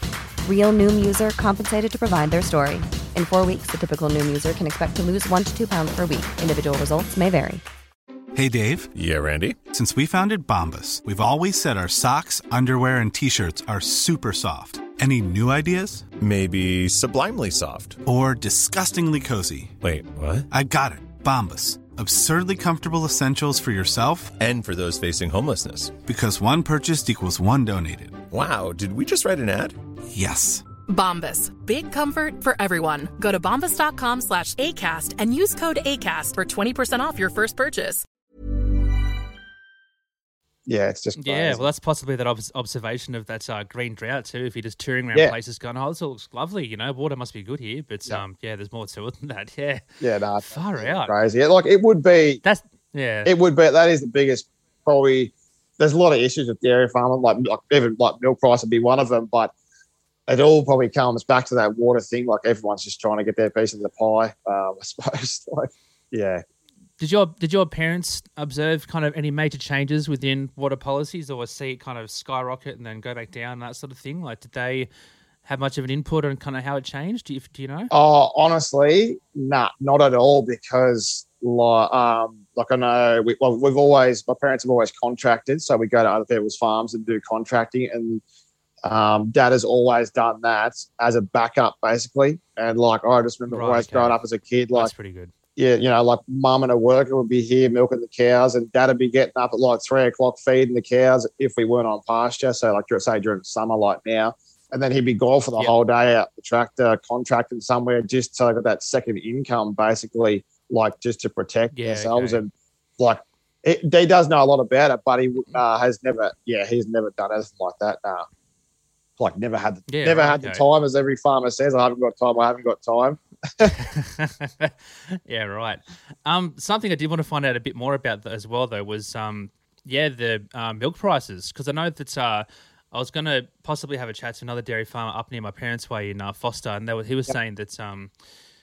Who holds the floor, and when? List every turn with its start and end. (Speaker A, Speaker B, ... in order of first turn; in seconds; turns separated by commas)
Speaker A: 0.4-7.6, Speaker B: 8.3-8.9, Speaker C: 8.9-9.6, Speaker B: 9.7-16.0, Speaker C: 16.2-18.0, Speaker B: 18.0-19.7, Speaker C: 19.8-20.5, Speaker B: 20.5-24.4, Speaker C: 24.4-26.0, Speaker B: 26.0-28.2, Speaker C: 28.3-29.8, Speaker B: 30.1-30.6, Speaker D: 30.9-38.0, Speaker E: 40.6-41.6, Speaker F: 41.2-49.8, Speaker E: 50.0-52.4, Speaker F: 50.4-51.1, Speaker F: 52.4-53.3, Speaker E: 53.2-59.5, Speaker E: 60.3-66.4, Speaker F: 67.0-74.9, Speaker F: 75.4-77.9, Speaker E: 77.9-88.2, Speaker E: 88.8-94.9, Speaker F: 93.5-94.2, Speaker F: 94.7-95.3, Speaker E: 95.6-118.3, Speaker F: 111.7-112.4, Speaker E: 119.2-123.7, Speaker F: 119.9-120.6, Speaker F: 123.6-138.1